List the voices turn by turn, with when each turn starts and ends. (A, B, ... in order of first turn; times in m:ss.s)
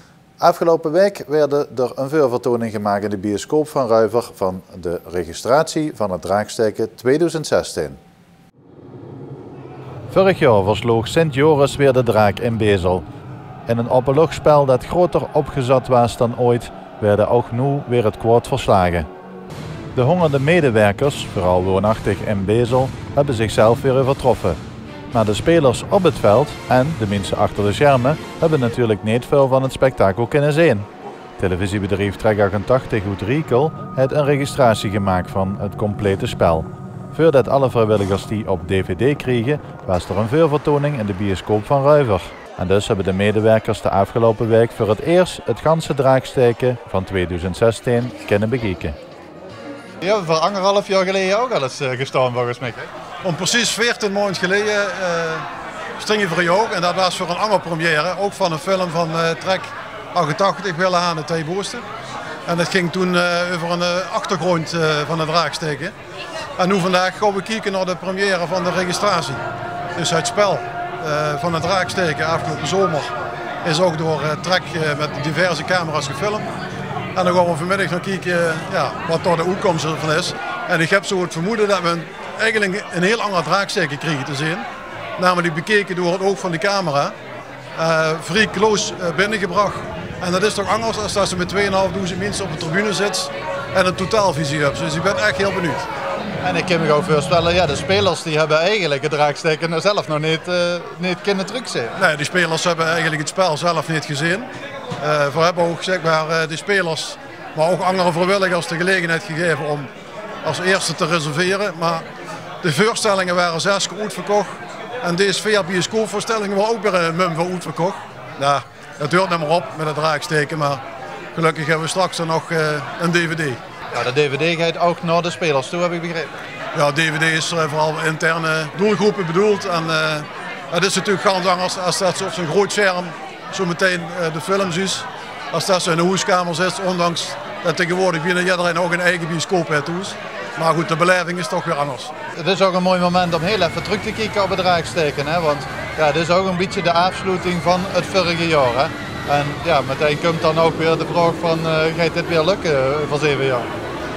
0:00.4-0:08.0 A
0:10.1-0:13.0 A
0:13.6-0:19.1 A
0:19.9-0:24.6 A
0:25.1-0:49.0 A
0:50.0-0:52.9 B
0:53.2-0:55.5 C
0:56.0-1:01.8 C
1:02.4-1:05.9 C
1:06.6-1:09.4 C
1:10.0-1:13.1 C
1:13.6-1:16.5 C
1:17.1-1:27.1 C
1:27.8-1:35.9 C
1:36.4-1:42.0 B
1:42.0-1:49.9 C
1:50.4-1:52.0 C
1:52.6-2:00.8 C
2:01.3-2:03.6 C
2:03.9-2:06.3 B
2:06.7-2:22.1 C
2:22.4-2:33.7 B